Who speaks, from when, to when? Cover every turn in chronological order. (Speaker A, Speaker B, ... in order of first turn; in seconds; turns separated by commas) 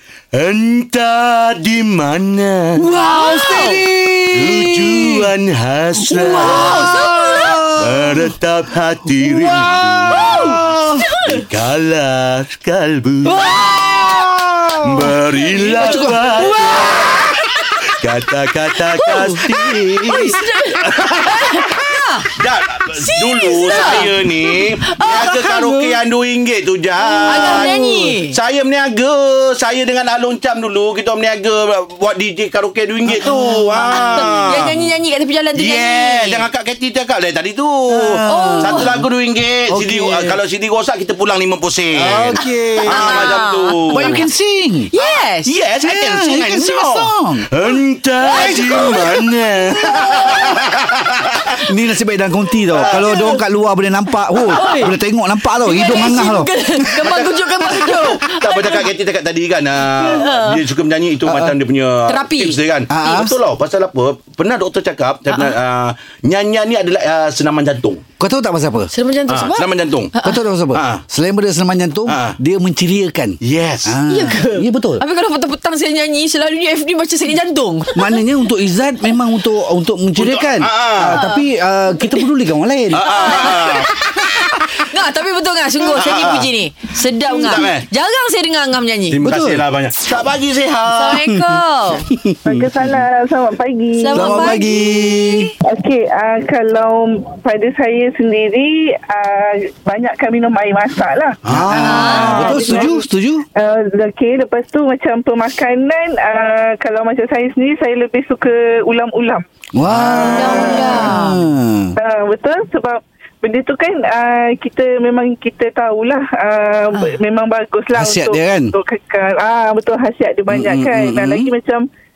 Speaker A: 0.3-2.8, Speaker B: 2.8-5.3, Speaker C: 3.0-3.8, Speaker A: 4.3-6.9, Speaker C: 6.0-7.8, Speaker B: 6.0-8.3, Speaker A: 7.8-10.6, Speaker B: 9.2-11.1, Speaker C: 10.1-11.4, Speaker A: 11.2-13.5, Speaker C: 13.2-14.2, Speaker B: 13.6-15.1, Speaker A: 14.8-17.3, Speaker C: 15.4-17.7, Speaker B: 15.6-17.1, Speaker A: 17.9-21.7, Speaker C: 18.9-22.3, Speaker A: 22.3-34.8, Speaker C: 22.9-25.9, Speaker C: 27.0-28.4, Speaker B: 27.3-27.6, Speaker C: 33.2-36.5, Speaker A: 35.6-44.2, Speaker B: 37.9-39.0, Speaker C: 38.2-39.0, Speaker B: 39.7-40.4, Speaker B: 41.9-43.4, Speaker C: 42.4-44.2, Speaker B: 43.9-44.9, Speaker C: 44.9-45.5, Speaker A: 45.0-51.6, Speaker B: 45.8-47.5, Speaker C: 48.2-49.1, Speaker B: 48.3-49.2, Speaker C: 49.8-50.6, Speaker B: 49.9-50.4, Speaker B: 51.7-57.1, Speaker A: 52.7-53.4, Speaker C: 52.8-53.4, Speaker A: 54.4-54.9, Speaker C: 54.5-54.9, Speaker C: 55.6-58.9, Speaker A: 57.0-68.0, Speaker C: 59.9-60.6, Speaker B: 61.2-61.6, Speaker C: 62.1-63.2, Speaker B: 62.9-63.4, Speaker C: 65.3-65.5, Speaker B: 68.2-68.9, Speaker C: 68.9-70.4, Speaker A: 69.3-70.1, Speaker B: 70.2-75.0, Speaker A: 70.7-71.0, Speaker A: 72.1-72.3, Speaker A: 73.4-74.0, Speaker C: 74.1-78.2, Speaker B: 77.9-83.6, Speaker A: 80.2-81.2, Speaker C: 81.1-81.4, Speaker C: 82.0-82.3, Speaker A: 82.9-83.9, Speaker C: 82.9-89.2, Speaker A: 85.9-86.5, Speaker A: 87.3-87.8, Speaker A: 89.1-91.3, Speaker B: 89.2-89.6, Speaker C: 90.9-92.1, Speaker B: 92.1-92.7, Speaker D: 92.4-94.6, Speaker C: 94.0-95.5, Speaker B: 94.1-95.5, Speaker D: 95.6-101.4, Speaker A: 101.5-102.9, Speaker B: 101.5-103.5, Speaker C: 101.7-102.8, Speaker D: 102.0-109.4, Speaker B: 109.7-111.9, Speaker D: 109.9-111.2, Speaker C: 110.3-111.4, Speaker D: 112.0-121.8, Speaker B: 117.9-118.7, Speaker B: 120.5-121.5